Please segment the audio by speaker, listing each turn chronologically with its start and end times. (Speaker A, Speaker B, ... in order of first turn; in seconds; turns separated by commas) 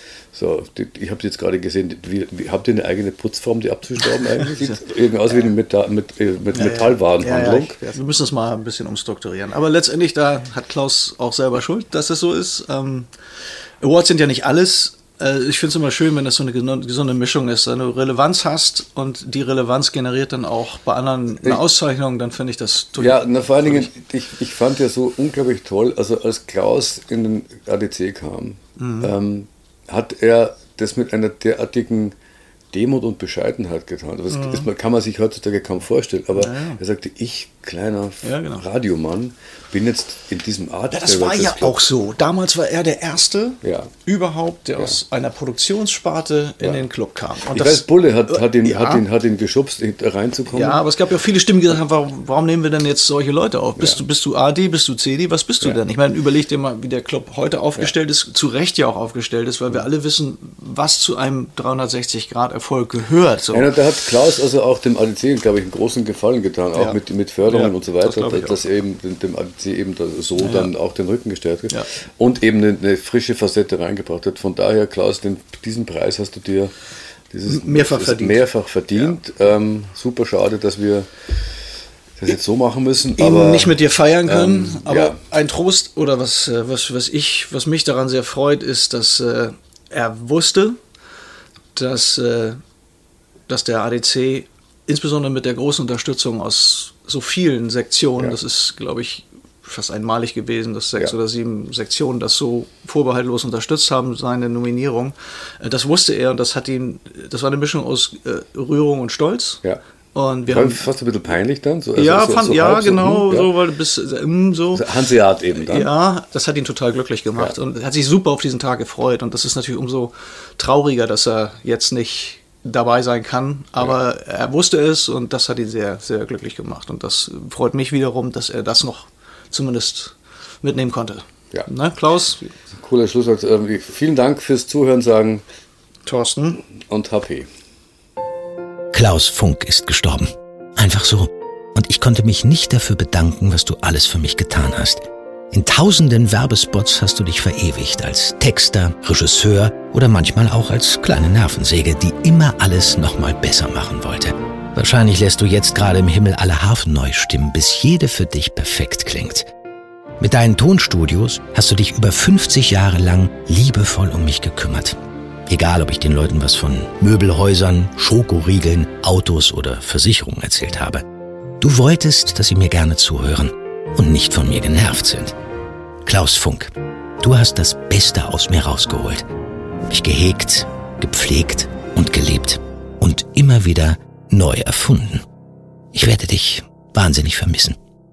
Speaker A: 0.3-7.7, Speaker B: 4.0-4.8, Speaker B: 6.5-13.1, Speaker B: 13.8-23.9, Speaker A: 23.0-32.1, Speaker B: 28.8-29.1, Speaker A: 32.7-41.8, Speaker B: 34.3-34.7, Speaker B: 36.3-36.8, Speaker B: 38.2-38.6, Speaker B: 40.9-49.0, Speaker A: 43.6-43.9, Speaker A: 47.5-50.8, Speaker B: 50.5-63.7, Speaker A: 63.5-76.7, Speaker B: 66.7-68.6, Speaker B: 70.4-70.7, Speaker A: 77.3-81.1, Speaker B: 77.5-78.4, Speaker A: 82.2-83.7, Speaker B: 83.2-90.8, Speaker A: 84.3-85.2, Speaker B: 91.8-92.6, Speaker B: 93.5-109.6, Speaker B: 110.1-110.8, Speaker A: 110.5-113.5, Speaker B: 112.0-114.8, Speaker A: 114.7-115.9, Speaker B: 115.5-132.5, Speaker A: 132.7-135.4, Speaker B: 136.1-136.6, Speaker A: 136.9-137.5, Speaker C: 138.9-159.5, Speaker C: 160.2-171.0, Speaker C: 171.6-175.3, Speaker C: 176.0-179.2, Speaker C: 179.9-185.2, Speaker C: 185.9-187.8